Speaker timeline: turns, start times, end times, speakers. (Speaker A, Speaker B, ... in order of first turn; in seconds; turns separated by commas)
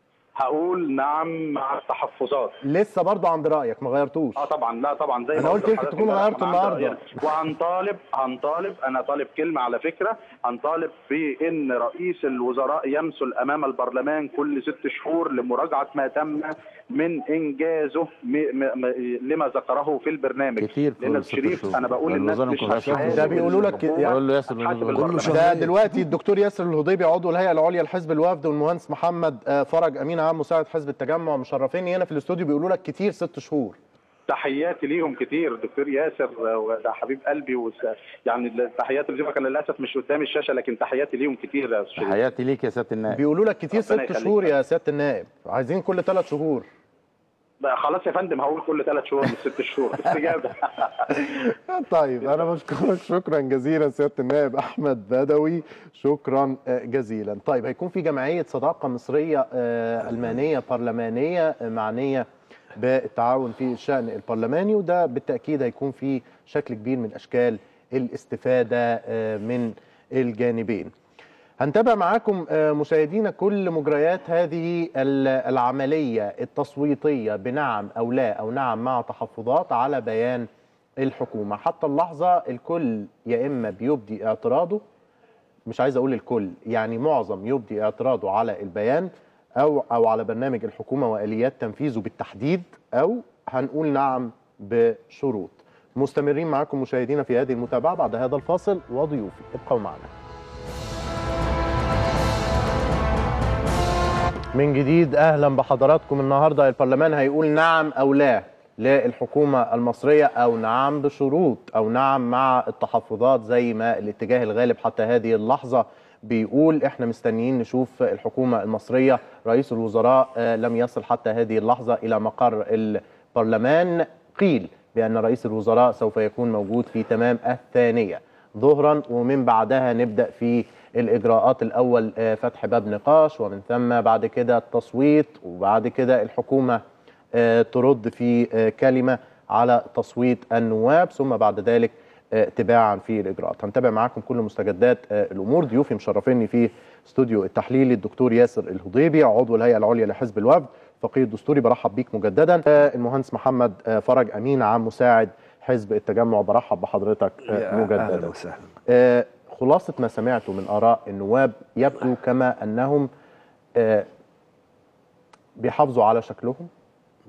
Speaker A: 0.4-2.6, Speaker B: 2.6-4.5, Speaker A: 4.4-25.5, Speaker B: 5.4-7.0, Speaker C: 20.6-25.4, Speaker B: 22.8-24.2, Speaker D: 25.0-25.7, Speaker B: 25.2-33.8, Speaker A: 34.3-42.2, Speaker C: 42.0-43.2, Speaker B: 43.1-46.7, Speaker A: 43.7-44.5, Speaker A: 47.6-50.9, Speaker B: 51.1-70.9, Speaker B: 71.6-80.5, Speaker B: 81.0-84.8, Speaker B: 85.7-100.1, Speaker B: 104.5-136.8, Speaker B: 137.3-158.3, Speaker D: 157.5-158.7, Speaker B: 158.9-163.1, Speaker B: 163.8-164.1, Speaker B: 165.6-166.7